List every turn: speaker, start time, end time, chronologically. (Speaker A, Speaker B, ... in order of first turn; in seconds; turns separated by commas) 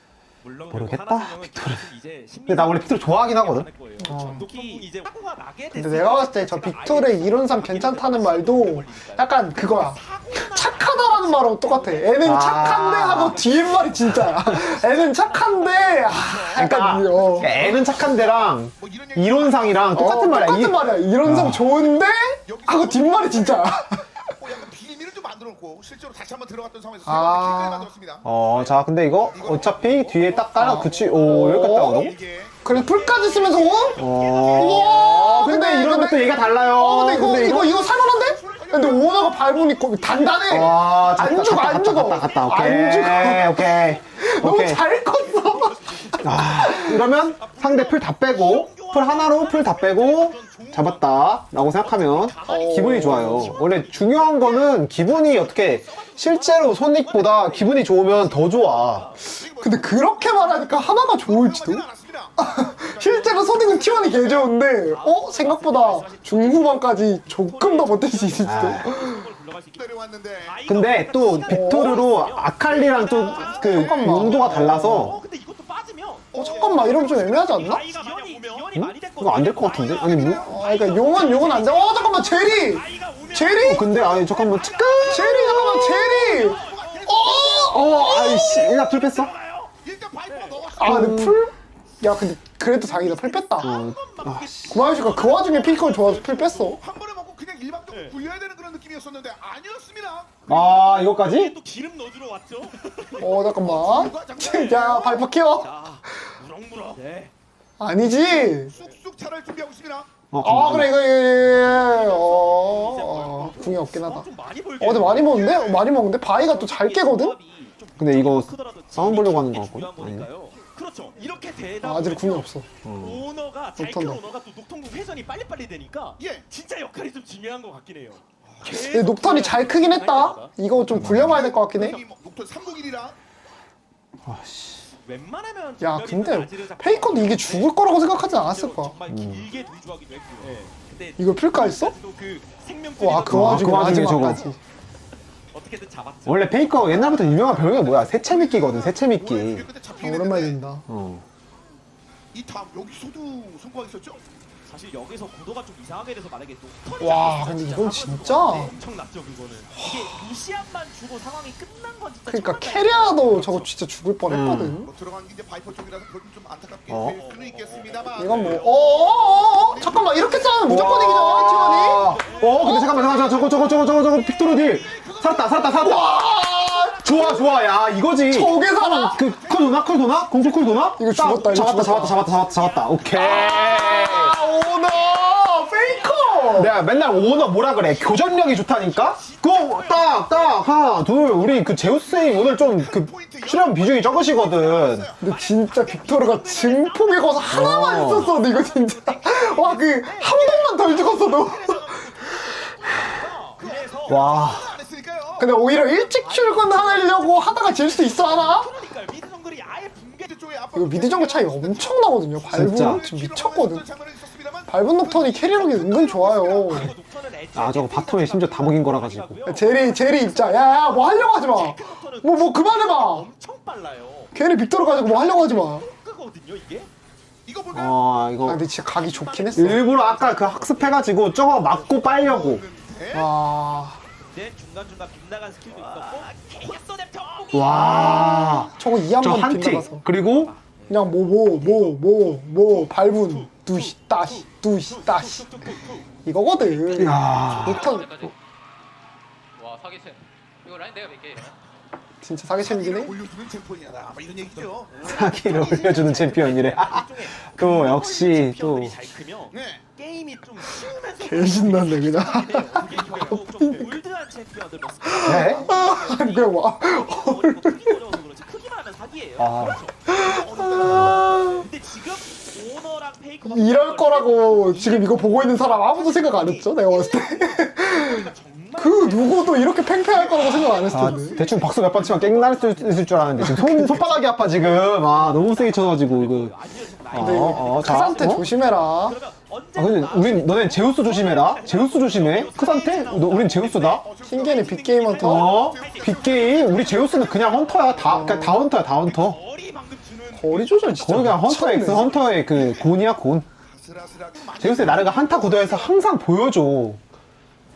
Speaker A: 0.4-18.4, Speaker B: 0.7-1.9, Speaker B: 2.5-3.7, Speaker C: 4.0-4.5, Speaker D: 4.0-4.8, Speaker C: 5.7-17.7, Speaker B: 12.2-13.5, Speaker B: 14.0-14.6, Speaker B: 16.5-21.6, Speaker D: 18.7-20.5, Speaker C: 19.9-24.1, Speaker D: 22.5-35.3, Speaker C: 27.0-27.9, Speaker B: 28.2-32.1, Speaker C: 30.6-34.0, Speaker A: 32.6-35.5, Speaker B: 34.0-37.9, Speaker C: 34.5-47.0, Speaker D: 36.4-43.4, Speaker B: 40.5-44.9, Speaker A: 44.9-59.3, Speaker B: 46.2-59.1, Speaker C: 52.5-53.6, Speaker D: 58.2-64.4, Speaker C: 59.6-61.8, Speaker C: 62.4-69.3, Speaker A: 64.8-89.7, Speaker B: 68.4-68.9, Speaker D: 69.7-70.6, Speaker B: 70.7-75.2, Speaker C: 71.5-72.0, Speaker C: 73.4-75.1, Speaker D: 76.3-78.7, Speaker C: 76.3-77.8, Speaker B: 78.7-80.5, Speaker D: 79.8-81.6, Speaker C: 80.4-83.9, Speaker B: 83.6-85.5, Speaker C: 85.0-88.7, Speaker D: 85.5-88.2, Speaker B: 87.7-89.3, Speaker D: 89.8-91.2, Speaker A: 90.3-90.7, Speaker C: 90.8-93.8, Speaker B: 90.8-91.3, Speaker A: 92.8-95.6, Speaker B: 93.6-94.8, Speaker C: 94.7-96.8, Speaker D: 94.9-100.4, Speaker B: 100.5-101.5, Speaker A: 100.5-103.4, Speaker D: 103.0-105.3, Speaker C: 103.2-105.7, Speaker A: 105.6-107.3, Speaker C: 107.8-108.7, Speaker D: 108.4-110.1, Speaker B: 110.3-111.0, Speaker C: 110.4-114.2, Speaker A: 111.7-115.4, Speaker D: 112.5-113.0, Speaker C: 114.8-117.3, Speaker D: 115.0-115.8, Speaker A: 116.4-130.5, Speaker B: 118.0-120.3, Speaker D: 121.0-121.4, Speaker C: 121.8-122.7, Speaker B: 122.8-123.2, Speaker C: 123.8-124.2, Speaker D: 126.2-126.4, Speaker D: 128.4-128.7, Speaker C: 128.6-132.0, Speaker B: 130.9-131.4, Speaker D: 131.0-133.2, Speaker B: 134.2-134.8, Speaker A: 135.0-144.5, Speaker C: 135.8-138.9, Speaker B: 139.1-139.5, Speaker C: 141.2-141.9, Speaker C: 143.0-144.6, Speaker B: 143.2-144.4, Speaker A: 145.5-147.6, Speaker B: 146.2-149.7, Speaker D: 146.9-150.6, Speaker C: 150.0-150.8, Speaker B: 150.9-151.2, Speaker D: 152.3-154.2, Speaker A: 154.7-163.7, Speaker C: 157.0-158.7, Speaker C: 159.8-160.1, Speaker C: 162.3-164.9, Speaker B: 164.3-164.8, Speaker D: 164.8-171.3, Speaker B: 166.9-167.2, Speaker A: 167.2-168.6, Speaker C: 168.2-172.9, Speaker B: 170.7-176.2, Speaker A: 171.6-173.6, Speaker D: 171.9-176.9, Speaker C: 175.8-177.5, Speaker B: 177.0-184.4, Speaker C: 178.3-179.2, Speaker D: 178.9-183.6, Speaker C: 181.0-182.2, Speaker A: 182.6-184.6, Speaker C: 183.1-186.8, Speaker A: 185.7-191.2, Speaker B: 186.5-195.1, Speaker D: 191.7-195.2, Speaker C: 195.2-202.4, Speaker A: 195.2-204.3, Speaker B: 197.5-198.4, Speaker D: 203.6-205.6, Speaker B: 204.1-204.7, Speaker C: 205.4-208.7, Speaker A: 205.9-210.3, Speaker D: 210.2-216.9, Speaker C: 210.7-213.8, Speaker B: 212.5-213.0, Speaker C: 214.7-216.9, Speaker A: 216.7-224.3, Speaker B: 217.5-219.4, Speaker C: 219.4-223.3, Speaker C: 224.3-225.8, Speaker A: 225.1-226.9, Speaker D: 227.4-228.2, Speaker B: 227.7-228.6, Speaker C: 228.4-229.8, Speaker A: 228.9-232.1, Speaker B: 229.5-232.6, Speaker D: 231.7-233.3, Speaker C: 233.1-234.0, Speaker A: 234.2-238.7, Speaker D: 235.7-236.3, Speaker B: 237.5-240.5, Speaker C: 237.7-240.0, Speaker A: 240.2-241.0, Speaker C: 240.9-245.4, Speaker A: 241.6-246.1, Speaker C: 246.2-248.2, Speaker A: 246.6-247.6, Speaker B: 247.0-247.9, Speaker E: 247.5-248.3, Speaker E: 249.6-251.6, Speaker C: 252.2-253.2, Speaker D: 252.6-255.0, Speaker A: 254.9-270.2, Speaker B: 255.0-258.9, Speaker D: 259.5-259.8, Speaker C: 261.1-263.9, Speaker C: 265.0-268.1, Speaker B: 265.2-265.6, Speaker D: 265.4-266.2, Speaker B: 269.4-269.8, Speaker C: 270.1-271.7, Speaker D: 270.1-271.5, Speaker A: 270.8-302.3, Speaker B: 270.9-271.2, Speaker C: 273.4-281.4, Speaker B: 280.9-286.5, Speaker C: 283.4-284.1, Speaker B: 287.1-288.4, Speaker C: 287.1-289.2, Speaker B: 289.7-294.0, Speaker D: 293.3-296.7, Speaker C: 294.2-295.5, Speaker B: 295.2-299.4, Speaker C: 298.1-298.6, Speaker C: 300.3-302.1, Speaker B: 301.0-303.5, Speaker D: 302.2-303.0, Speaker D: 303.6-306.0, Speaker B: 304.6-307.0